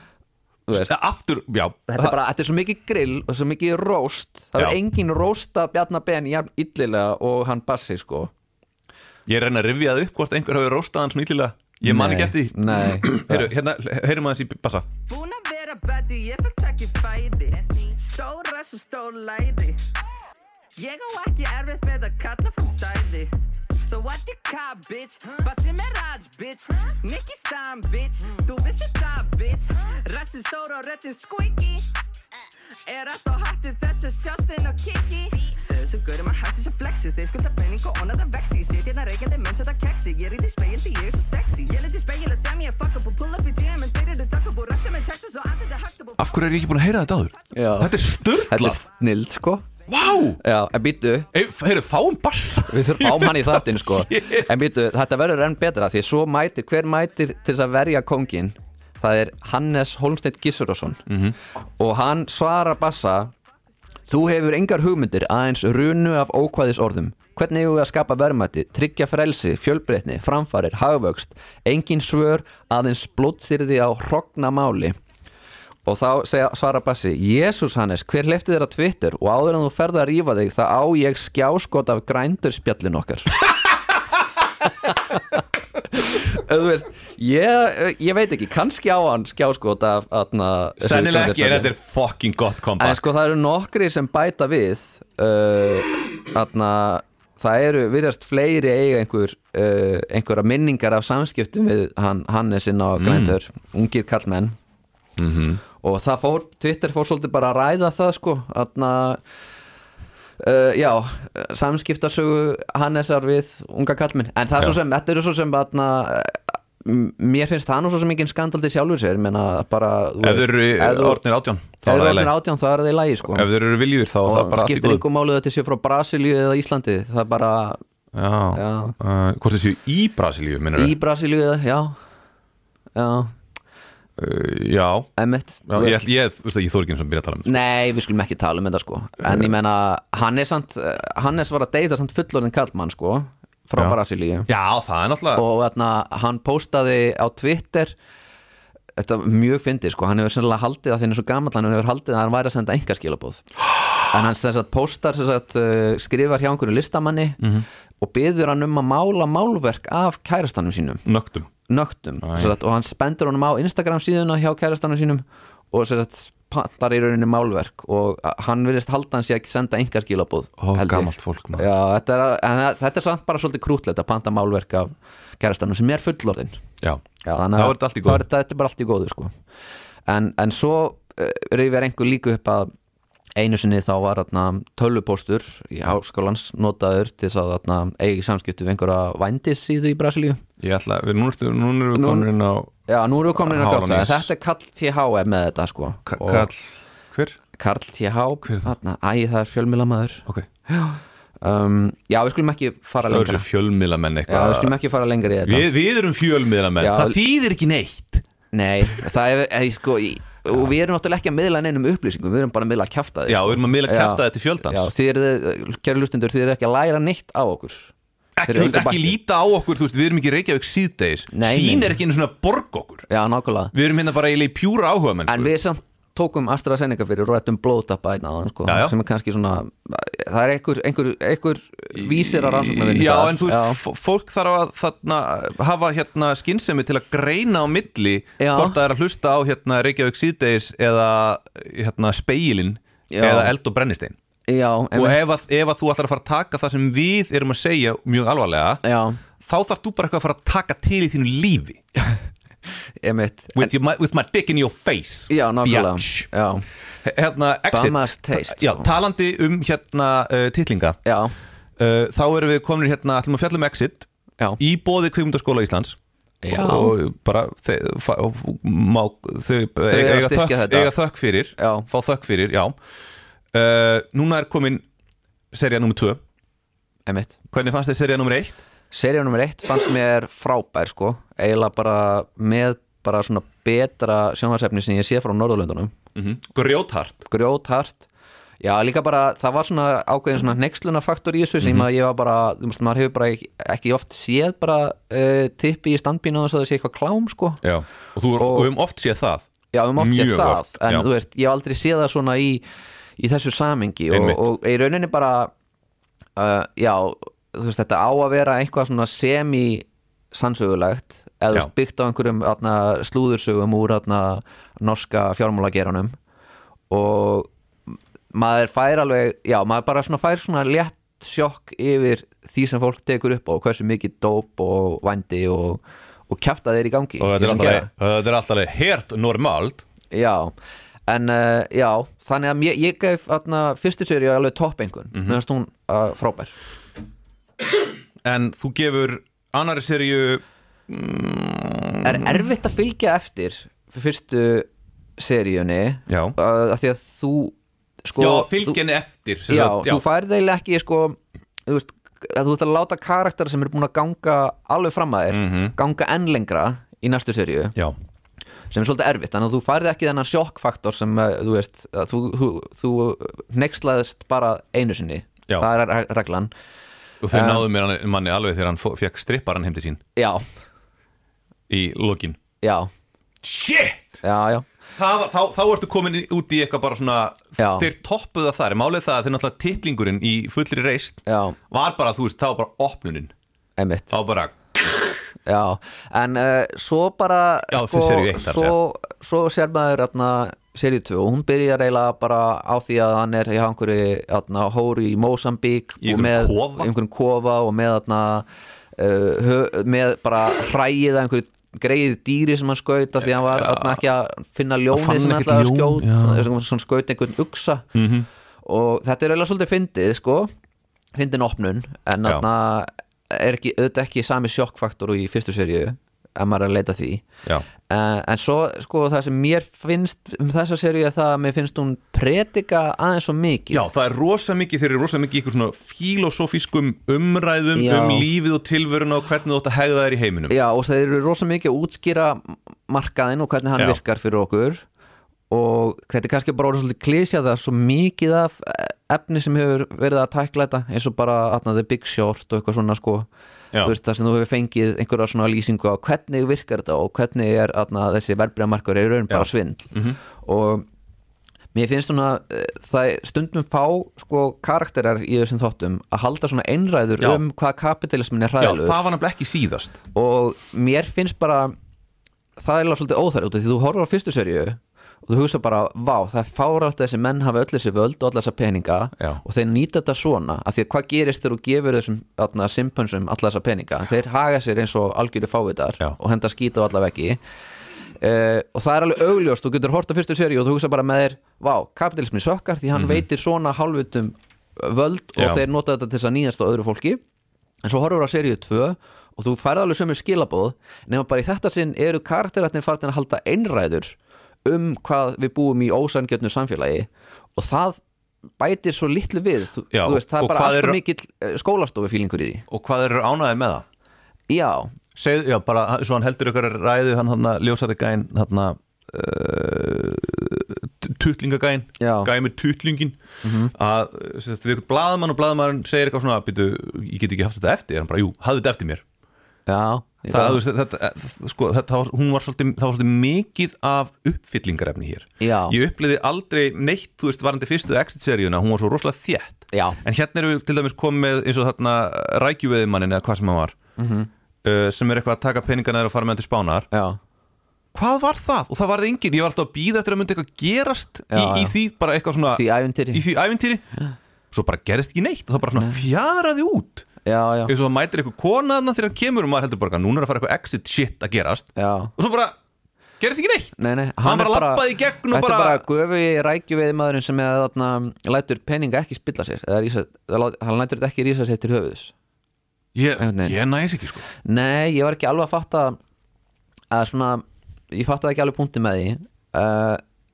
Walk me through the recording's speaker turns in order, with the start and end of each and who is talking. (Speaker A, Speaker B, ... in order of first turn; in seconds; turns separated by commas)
Speaker A: 0.7-0.9, Speaker B: 0.7-2.2, Speaker A: 1.9-8.3, Speaker B: 9.3-14.9, Speaker A: 11.8-13.5, Speaker C: 15.1-19.8, Speaker C: 20.8-31.9, Speaker C: 32.9-46.4, Speaker B: 46.2-48.8, Speaker A: 47.5-49.7, Speaker B: 49.9-50.4, Speaker A: 50.4-51.3, Speaker B: 51.3-54.5, Speaker A: 52.6-61.0, Speaker B: 61.1-61.4, Speaker A: 61.8-63.3, Speaker A: 64.1-75.0, Speaker A: 75.8-83.4, Speaker A: 84.6-85.4, Speaker A: 85.9-91.7, Speaker B: 90.8-93.0, Speaker A: 92.8-104.6, Speaker B: 103.0-103.4, Speaker B: 105.2-105.6, Speaker A: 105.8-109.2, Speaker A: 110.4-121.2, Speaker B: 120.2-122.3, Speaker A: 121.8-123.5, Speaker B: 123.3-125.0, Speaker A: 124.2-127.8, Speaker B: 128.1-130.9, Speaker A: 128.5-128.9, Speaker A: 130.8-132.0, Speaker A: 132.9-133.3, Speaker B: 134.2-135.1, Speaker A: 135.2-136.1, Speaker B: 135.7-137.6, Speaker A: 137.4-144.5, Speaker B: 144.5-145.4, Speaker A: 145.3-147.9, Speaker A: 148.9-157.4, Speaker B: 157.4-157.7, Speaker A: 158.0-161.1, Speaker B: 161.1-161.5, Speaker A: 161.7-176.6, Speaker B: 162.2-162.5, Speaker B: 170.6-171.7, Speaker A: 177.2-179.3, Speaker B: 177.5-178.2, Speaker A: 180.1-182.7, Speaker A: 183.3-190.4, Speaker B: 190.6-192.7, Speaker A: 191.9-192.3, Speaker A: 192.9-196.5, Speaker B: 193.3-194.3, Speaker B: 196.1-197.4, Speaker A: 197.5-203.4, Speaker B: 198.4-198.7, Speaker B: 203.0-204.7, Speaker A: 204.3-205.7, Speaker B: 205.4-208.2, Speaker A: 206.8-207.2, Speaker A: 208.5-217.9, Speaker B: 213.3-214.9, Speaker B: 218.4-223.1, Speaker A: 218.5-219.1, Speaker A: 221.3-222.0, Speaker A: 223.1-223.7, Speaker B: 223.7-225.5, Speaker A: 225.3-233.8, Speaker B: 228.7-228.9, Speaker B: 231.9-244.2, Speaker A: 238.4-238.8, Speaker A: 243.1-243.5, Speaker A: 244.5-245.2, Speaker B: 244.9-248.8, Speaker A: 248.8-249.2, Speaker B: 249.4-251.8, Speaker A: 253.0-253.7, Speaker B: 253.5-256.3, Speaker A: 255.3-256.6, Speaker B: 257.0-261.0, Speaker A: 257.7-258.9, Speaker A: 261.0-261.3, Speaker B: 261.8-264.1, Speaker B: 264.6-266.0, Speaker A: 266.4-266.9, Speaker B: 266.5-272.7, Speaker A: 269.9-270.9, Speaker A: 271.6-271.9, Speaker B: 273.5-274.8, Speaker B: 275.5-276.2, Speaker A: 277.1-277.3, Speaker B: 277.5-278.6, Speaker A: 278.9-285.9, Speaker B: 286.1-287.2, Speaker A: 287.2-288.0, Speaker A: 288.6-297.6, Speaker B: 291.6-291.9, Speaker B: 297.6-301.1, Speaker A: 298.4-298.7, Speaker A: 299.7-302.6, Speaker A: 303.2-305.5, Speaker B: 304.1-304.4, Speaker A: 306.4-316.1, Speaker A: 316.9-317.5, Speaker A: 318.3-327.9, Speaker B: 327.2-329.8, Speaker A: 330.1-330.5, Speaker A: 331.1-336.5, Speaker B: 338.2-342.3, Speaker A: 342.0-348.8, Speaker B: 346.1-346.4, Speaker B: 348.2-350.0, Speaker A: 349.5-357.7, Speaker B: 355.3-355.8, Speaker A: 358.7-366.5, Speaker B: 367.2-370.0, Speaker A: 367.3-367.6, Speaker A: 370.1-370.4, Speaker B: 371.7-372.4, Speaker A: 372.6-372.9, Speaker B: 373.4-374.2, Speaker A: 374.2-374.6, Speaker B: 375.0-383.3, Speaker A: 377.6-377.9, Speaker A: 381.3-381.6, Speaker A: 383.8-384.1, Speaker B: 384.1-385.2, Speaker A: 385.4-407.9, Speaker B: 387.7-388.7, Speaker B: 396.0-396.9, Speaker B: 403.4-404.0, Speaker B: 404.9-406.5, Speaker B: 407.9-408.3, Speaker A: 408.6-410.5, Speaker A: 411.1-417.2, Speaker A: 417.8-423.9, Speaker B: 423.7-430.6, Speaker A: 427.7-428.2, Speaker A: 430.5-434.8, Speaker A: 435.5-443.3, Speaker A: 443.8-450.9, Speaker B: 449.3-450.2, Speaker A: 451.7-459.0, Speaker B: 458.6-460.0, Speaker A: 460.1-461.7, Speaker A: 462.6-477.4, Speaker A: 478.2-487.2, Speaker B: 482.9-483.2, Speaker B: 485.4-485.6, Speaker A: 487.8-498.0, Speaker A: 498.6-502.6, Speaker B: 499.9-501.0, Speaker B: 502.7-503.8, Speaker A: 504.5-504.9, Speaker B: 505.1-519.0, Speaker A: 512.0-512.3, Speaker A: 513.4-513.7, Speaker A: 519.7-520.6, Speaker B: 520.3-533.8, Speaker A: 525.4-525.8, Speaker A: 529.7-530.0, Speaker A: 534.0-534.3, Speaker B: 534.6-536.9, Speaker A: 536.9-537.2, Speaker B: 537.9-543.8, Speaker A: 541.3-541.7, Speaker A: 542.5-543.2, Speaker B: 544.5-547.1, Speaker A: 547.2-547.7, Speaker B: 547.7-552.5, Speaker A: 551.8-552.1, Speaker B: 553.2-555.8, Speaker A: 553.8-562.1, Speaker B: 562.9-564.3, Speaker A: 563.2-563.6, Speaker A: 564.4-566.0, Speaker A: 566.9-570.0